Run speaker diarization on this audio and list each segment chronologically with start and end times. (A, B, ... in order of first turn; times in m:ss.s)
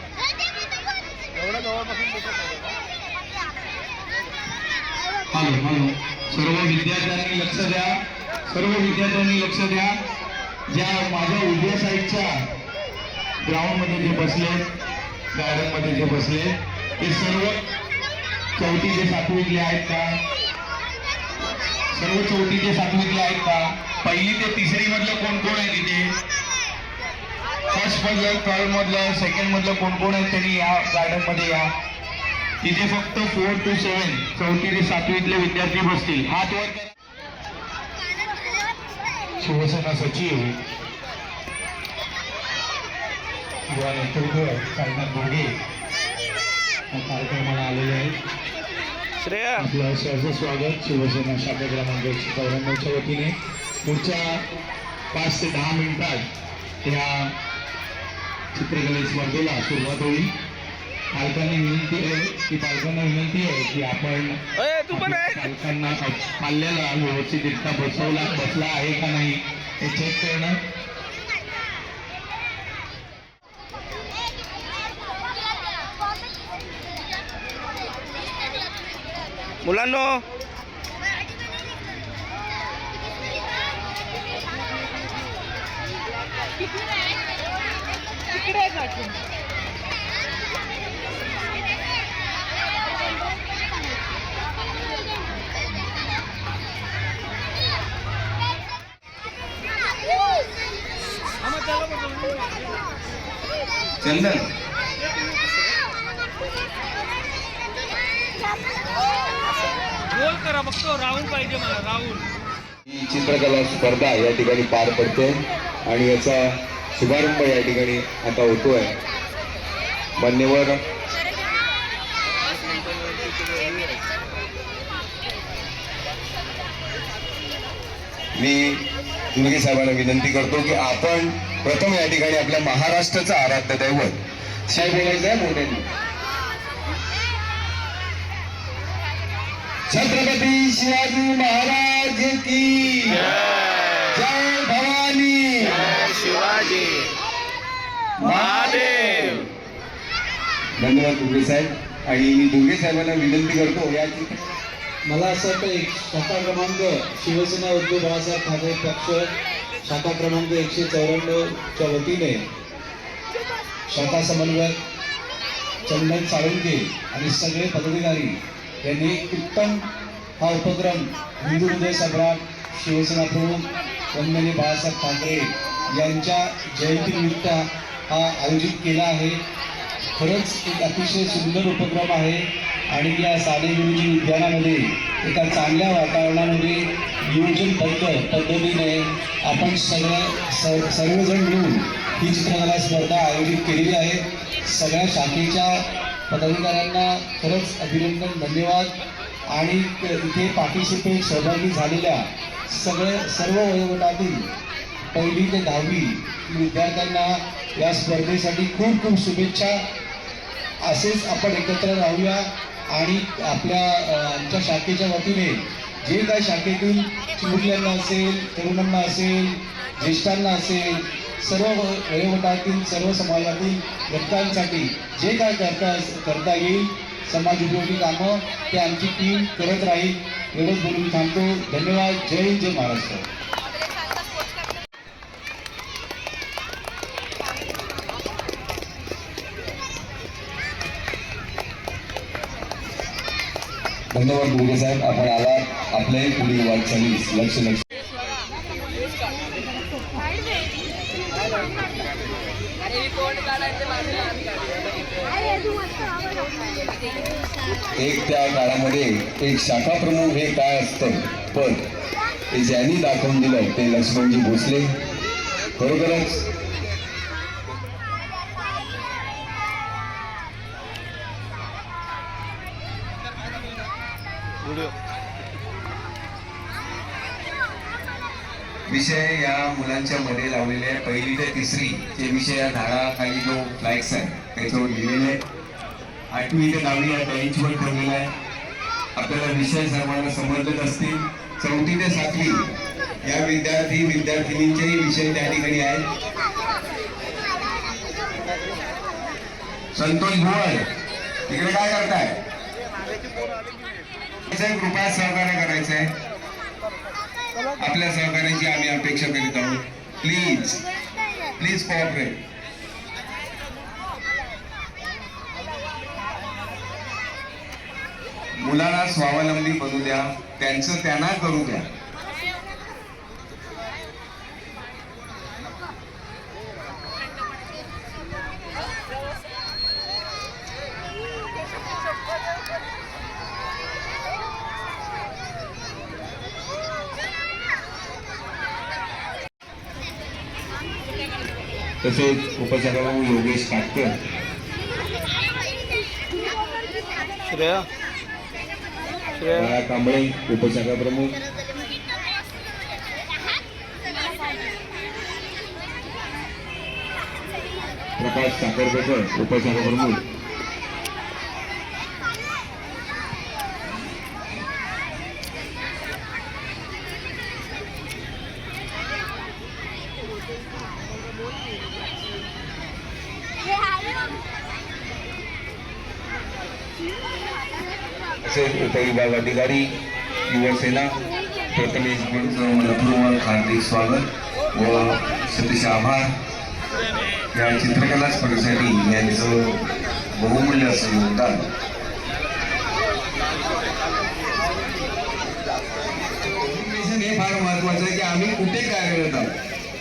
0:05.3-0:09.9 A
0:10.7-0:12.3 A
0:13.4-0:14.7 A
0:15.3-0:17.6 A
0:18.6-0:20.2 A
0:21.9-0:26.1 A
0:27.7-0:31.7 A
0:32.6-0:36.9 A
0:39.4-0:40.6 A
0:43.7-0:45.5 A
0:46.9-0:48.1 A
0:49.2-0:49.7 B
0:49.6-0:54.4 A
0:55.1-0:56.2 A
0:56.8-0:57.3 A
0:58.5-1:00.3 A
1:01.1-1:04.4 A
1:04.6-1:05.5 B
1:04.9-1:10.6 A
1:19.6-1:20.2 B
1:44.0-1:44.4 C
1:52.9-1:58.9 C
2:00.2-2:00.8 C
2:08.4-2:14.2 C
2:14.7-2:15.8 C
2:19.9-2:23.3 C
2:24.1-2:26.1 C
2:25.8-2:27.1 B
2:28.2-2:29.4 C
2:28.6-2:29.2 B
2:30.8-2:34.4 C
2:35.0-2:39.3 D
2:39.8-2:42.4 D
2:43.9-2:44.7 D
2:45.8-2:49.8 D
2:50.4-2:59.4 D
3:00.2-3:19.0 D
3:19.5-3:24.5 D
3:25.1-3:29.8 D
3:30.8-3:53.2 D
4:04.1-4:07.8 C
4:18.0-4:21.8 C
4:22.5-4:24.9 C
4:25.8-4:26.4 C
4:38.9-4:45.4 C
4:46.3-4:48.3 C
4:49.2-4:52.6 C
4:53.2-4:56.0 C
4:59.9-5:00.8 C
5:01.5-5:02.4 C
5:04.5-5:06.1 C
5:07.8-5:10.8 C
5:11.6-5:12.4 C
5:18.6-5:21.8 C
5:42.0-5:44.1 C
5:47.5-5:47.9 B
5:49.4-5:49.7 B
5:49.5-5:51.4 C
5:58.2-6:00.2 C
6:18.4-6:19.9 C
6:20.5-6:21.2 C
6:21.7-6:26.3 C
6:27.5-6:29.8 C
6:30.3-6:31.7 C
6:36.5-6:39.5 C